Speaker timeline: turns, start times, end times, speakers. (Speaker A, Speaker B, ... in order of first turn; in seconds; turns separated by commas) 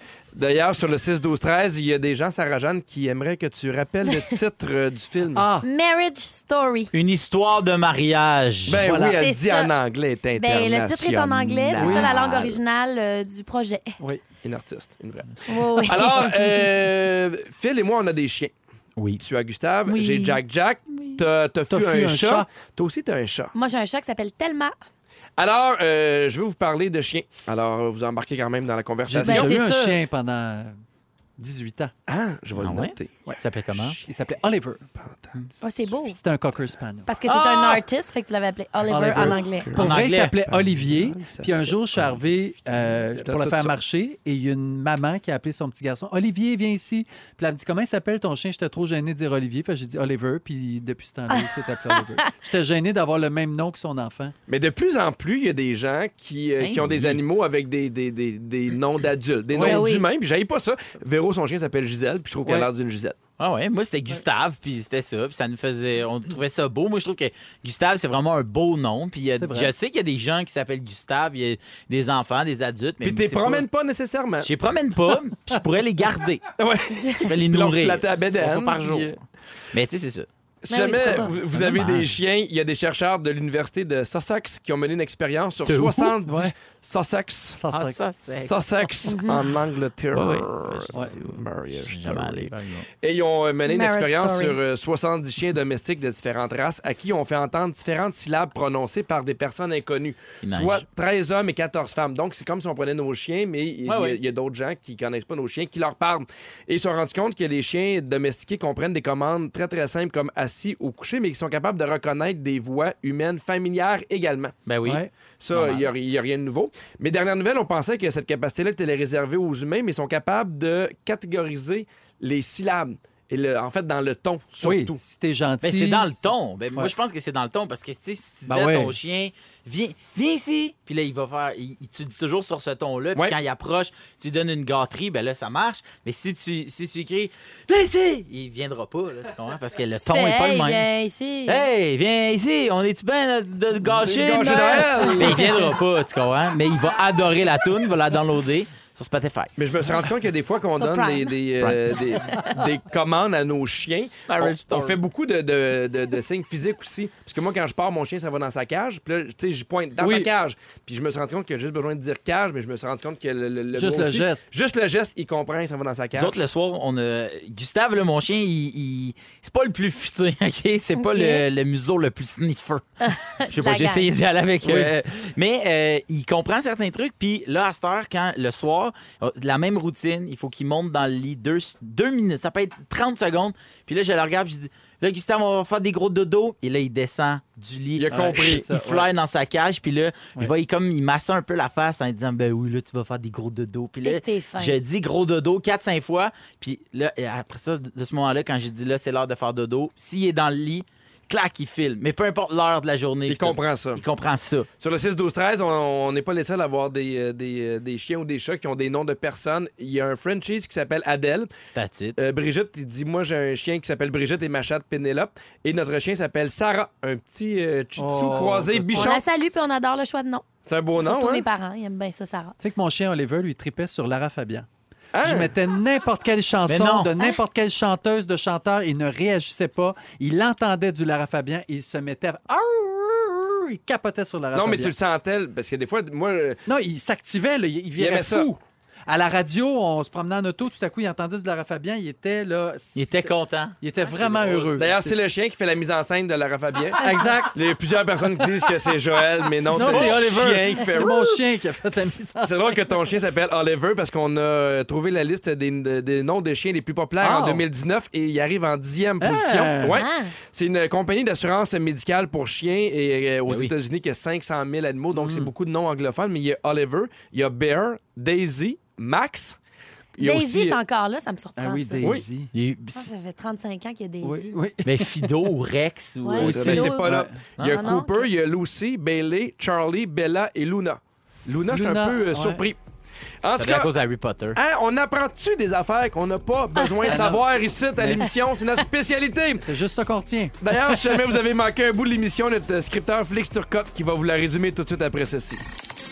Speaker A: 0.3-5.5, Speaker B: 5.3-5.7, Speaker C: 5.6-6.9, Speaker D: 6.9-8.8, Speaker A: 8.7-12.5, Speaker B: 8.8-9.2, Speaker C: 9.0-9.7, Speaker C: 10.4-14.0, Speaker B: 11.8-12.1, Speaker D: 11.9-12.5, Speaker A: 14.4-18.5, Speaker C: 15.4-16.6, Speaker D: 19.0-19.2, Speaker A: 19.2-23.5, Speaker D: 19.9-20.4, Speaker B: 21.7-22.5, Speaker C: 23.5-24.7, Speaker A: 25.4-29.6, Speaker B: 29.1-30.7, Speaker C: 29.2-30.0, Speaker B: 31.4-31.9, Speaker A: 32.1-34.1, Speaker D: 32.6-34.0, Speaker B: 34.0-37.1, Speaker A: 35.0-35.3, Speaker C: 35.6-36.2, Speaker C: 37.0-39.7, Speaker D: 37.3-37.8, Speaker B: 38.9-54.3, Speaker A: 39.1-42.2, Speaker D: 39.8-40.4, Speaker A: 43.1-43.7, Speaker C: 51.3-52.3, Speaker A: 54.5-63.2, Speaker D: 56.6-57.2, Speaker B: 59.5-59.9, Speaker C: 59.6-60.0, Speaker D: 63.4-73.7, Speaker B: 69.4-69.7, Speaker A: 73.0-74.5, Speaker D: 74.4-76.4, Speaker A: 76.6-79.2, Speaker D: 77.3-79.2, Speaker D: 79.7-80.3, Speaker A: 80.6-87.6, Speaker C: 80.7-81.3, Speaker D: 81.5-82.1, Speaker D: 85.7-86.1, Speaker B: 86.2-86.5, Speaker B: 87.5-88.0, Speaker D: 87.7-89.5, Speaker A: 88.3-114.5, Speaker C: 89.0-89.5, Speaker D: 90.1-92.9, Speaker C: 93.7-94.6, Speaker D: 100.4-100.8, Speaker D: 103.9-104.2, Speaker D: 114.7-115.9, Speaker B: 114.8-115.1, Speaker A: 115.4-125.0, Speaker B: 124.6-126.2, Speaker D: 125.6-140.8, Speaker B: 128.5-128.9, Speaker C: 139.9-141.7, Speaker D: 141.5-149.5, Speaker A: 143.9-145.6, Speaker A: 149.6-166.4, Speaker C: 150.8-151.4, Speaker D: 154.3-155.0, Speaker B: 160.0-160.3, Speaker B: 163.7-164.4, Speaker D: 166.2-204.7, Speaker C: 170.9-171.4, Speaker C: 173.0-174.1, Speaker B: 174.6-174.9, Speaker A: 188.0-188.6, Speaker B: 188.1-189.1, Speaker C: 194.0-194.8, Speaker A: 203.3-204.0, Speaker A: 204.8-211.5, Speaker D: 211.7-212.2, Speaker A: 212.2-219.2, Speaker B: 218.0-219.1, Speaker C: 218.9-220.4, Speaker A: 220.7-221.5, Speaker C: 221.0-222.6, Speaker B: 222.6-224.7, Speaker A: 225.1-225.5, Speaker B: 225.2-234.9, Speaker D: 226.7-227.1, Speaker A: 234.5-236.6, Speaker B: 236.7-245.1, Speaker A: 238.0-238.5, Speaker D: 243.0-243.7, Speaker A: 244.1-251.2, Speaker B: 247.0-247.5, Speaker B: 249.7-252.8, Speaker D: 249.9-250.2, Speaker A: 252.4-269.6, Speaker B: 257.2-257.6, Speaker B: 259.2-260.0, Speaker C: 259.9-260.3, Speaker D: 263.5-263.7, Speaker B: 265.1-265.5, Speaker A: 270.2-270.8, Speaker C: 270.2-272.1, Speaker B: 271.6-272.5, Speaker D: 272.5-273.1, Speaker C: 272.9-274.5, Speaker B: 274.2-275.3, Speaker D: 274.8-276.9, Speaker C: 276.2-278.2, Speaker B: 276.4-277.4, Speaker A: 276.4-282.8, Speaker D: 277.6-277.9, Speaker B: 281.7-282.6, Speaker A: 283.4-283.9, Speaker D: 283.6-284.6, Speaker A: 284.5-289.7, Speaker B: 287.1-288.3, Speaker B: 289.6-290.6, Speaker A: 290.6-295.6